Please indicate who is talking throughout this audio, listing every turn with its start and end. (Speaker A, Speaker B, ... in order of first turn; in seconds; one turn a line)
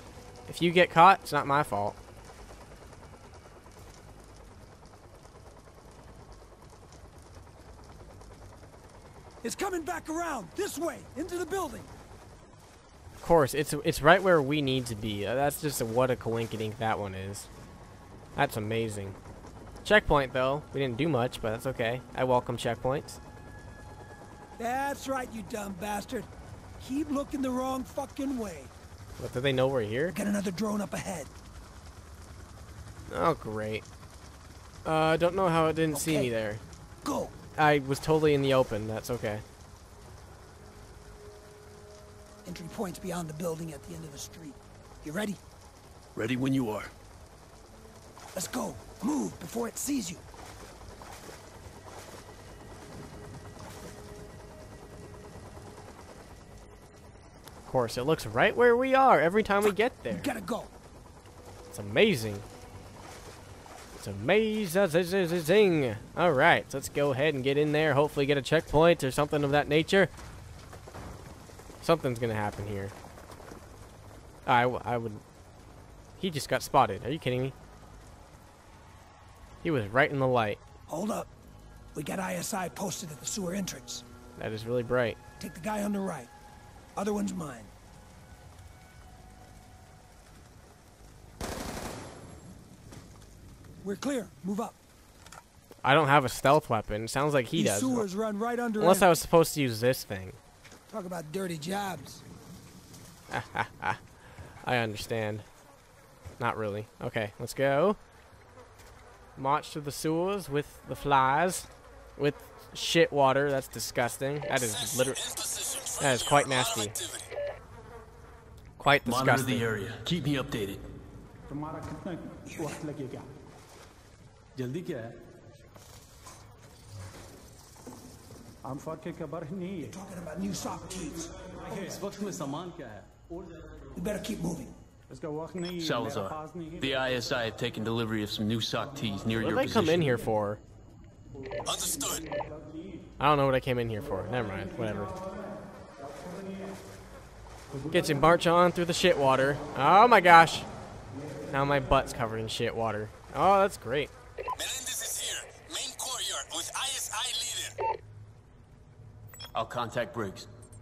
Speaker A: 0.5-2.0
Speaker B: 9.4-11.9
Speaker A: 13.2-17.5
Speaker A: 18.4-19.2
Speaker A: 19.9-23.2
Speaker B: 24.6-26.3
Speaker B: 26.8-28.7
Speaker A: 29.2-30.2
Speaker B: 30.1-31.3
Speaker A: 33.1-33.9
Speaker A: 34.9-36.6
Speaker B: 35.9-36.3
Speaker B: 37.0-37.3
Speaker A: 37.6-39.4
Speaker B: 42.5-45.4
Speaker C: 46.1-46.9
Speaker B: 48.3-50.2
Speaker A: 57.7-60.3
Speaker B: 59.6-60.7
Speaker A: 61.7-62.5
Speaker A: 63.9-70.1
Speaker A: 71.8-72.9
Speaker A: 74.5-75.2
Speaker A: 76.2-77.5
Speaker A: 79.6-80.6
Speaker B: 80.9-81.3
Speaker B: 82.0-84.0
Speaker A: 84.4-85.2
Speaker B: 85.4-86.3
Speaker B: 87.0-87.7
Speaker B: 93.8-94.8
Speaker A: 95.8-98.0
Speaker B: 97.5-99.2
Speaker A: 98.8-100.4
Speaker B: 100.9-102.2
Speaker A: 103.3-104.0
Speaker A: 104.6-105.5
Speaker A: 106.4-108.0
Speaker A: 109.4-115.2
Speaker A: 116.0-117.0
Speaker A: 118.8-119.7
Speaker C: 119.1-120.8
Speaker B: 122.4-122.8
Speaker B: 129.6-132.7
Speaker B: 134.0-134.7
Speaker C: 135.8-140.1
Speaker A: 139.4-140.6
Speaker D: 141.7-142.2
Speaker A: 143.2-145.2
Speaker A: 147.9-150.7
Speaker A: 151.5-154.1
Speaker D: 154.6-157.7
Speaker C: 159.6-160.5